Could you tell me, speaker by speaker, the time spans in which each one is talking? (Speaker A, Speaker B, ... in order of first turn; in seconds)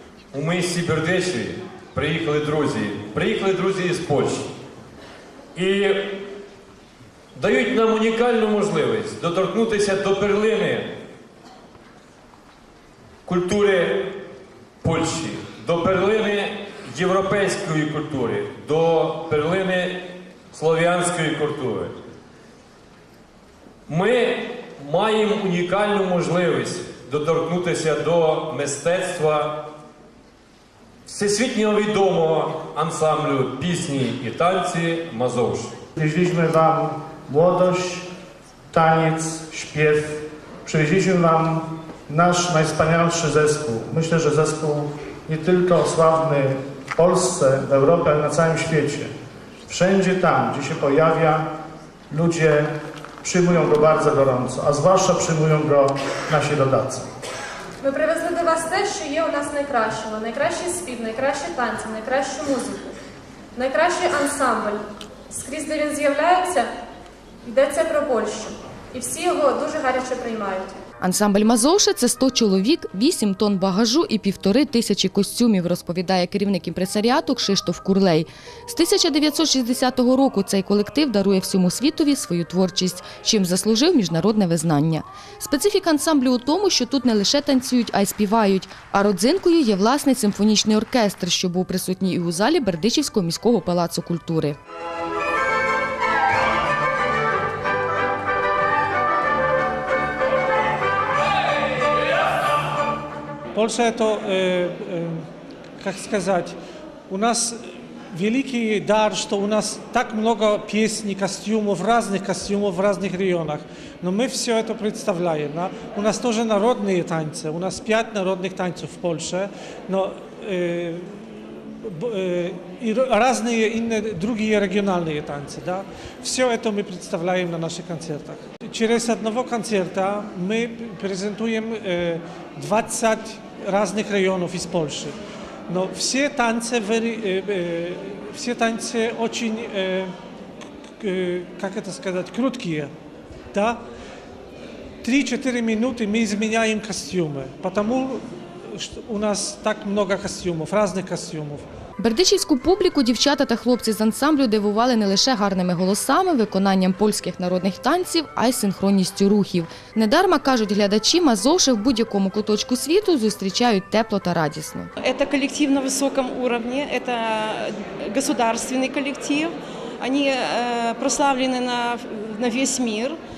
Speaker A: 0.3-4.5, 5.5-6.2, 7.3-10.9, 13.2-14.2, 14.8-21.9, 23.9-29.7, 31.1-35.7
Speaker B: 36.0-38.1, 38.7-49.1, 49.7-51.5, 52.1-52.7, 53.2-57.1
Speaker C: 57.8-62.9, 63.5-66.7, 67.5-70.8
Speaker D: 71.0-94.6, 152.0-164.9
Speaker E: 103.5-105.2, 105.8-106.6, 107.1-135.2, 135.7-140.1, 141.0-142.9, 143.5-143.8, 145.0-151.6
Speaker F: 165.0-173.2